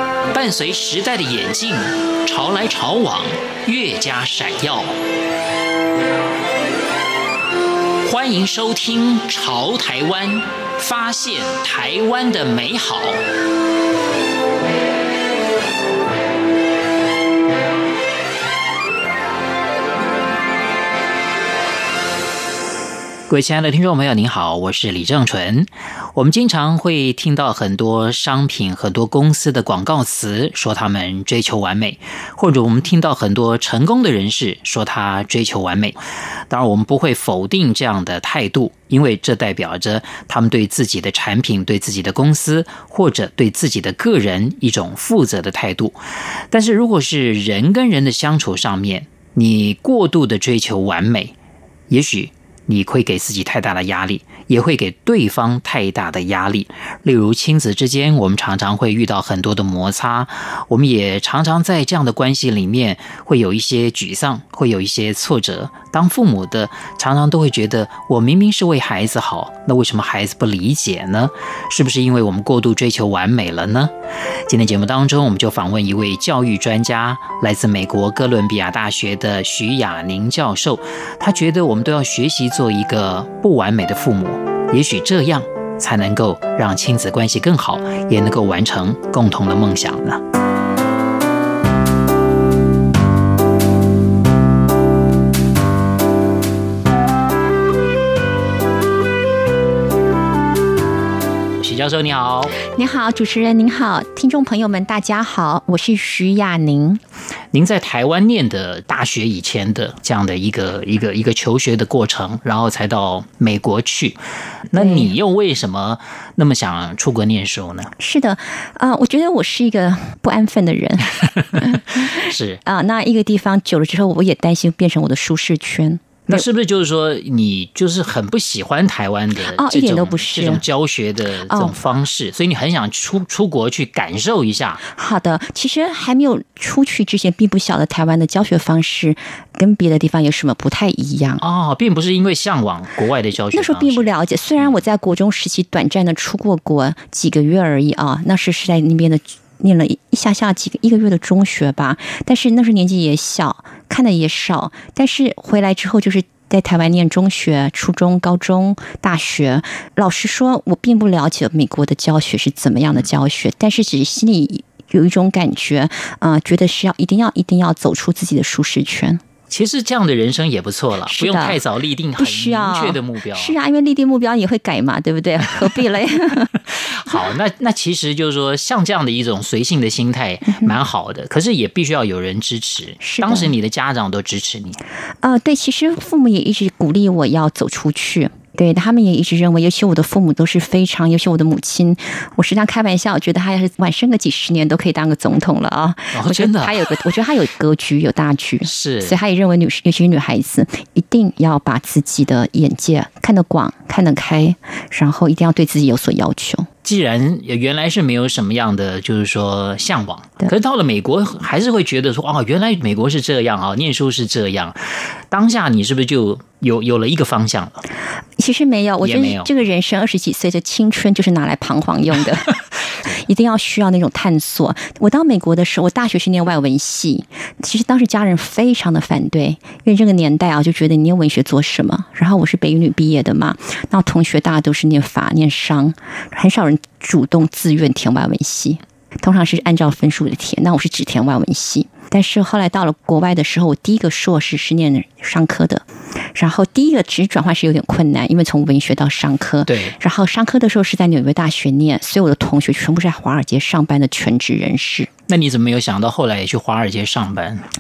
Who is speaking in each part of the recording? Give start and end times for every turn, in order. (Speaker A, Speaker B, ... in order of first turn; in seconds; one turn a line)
Speaker A: 0.3-5.0
Speaker A: 8.0-13.2
Speaker A: 23.3-46.0
Speaker A: 46.5-51.4
Speaker A: 51.9-73.9
Speaker A: 74.5-90.2
Speaker A: 101.6-102.6
Speaker B: 102.7-107.0
Speaker A: 107.5-117.9
Speaker B: 114.7-115.1
Speaker B: 118.0-126.5
Speaker A: 121.4-122.6
Speaker A: 126.3-134.8
Speaker B: 129.5-130.6
Speaker B: 131.5-131.8
Speaker B: 134.9-141.4
Speaker A: 141.4-144.7
Speaker B: 143.5-169.2
Speaker A: 169.5-173.6
Speaker B: 171.1-171.6
Speaker B: 172.2-176.5
Speaker A: 176.6-184.8
Speaker B: 183.0-183.5
Speaker B: 185.2-206.7
Speaker A: 196.1-196.9
Speaker A: 198.6-199.2
Speaker A: 206.8-214.8
Speaker A: 215.3-217.8
Speaker B: 218.4-222.5
Speaker A: 219.0-219.5
Speaker B: 223.1-255.1
Speaker A: 249.7-250.0
Speaker A: 255.3-257.6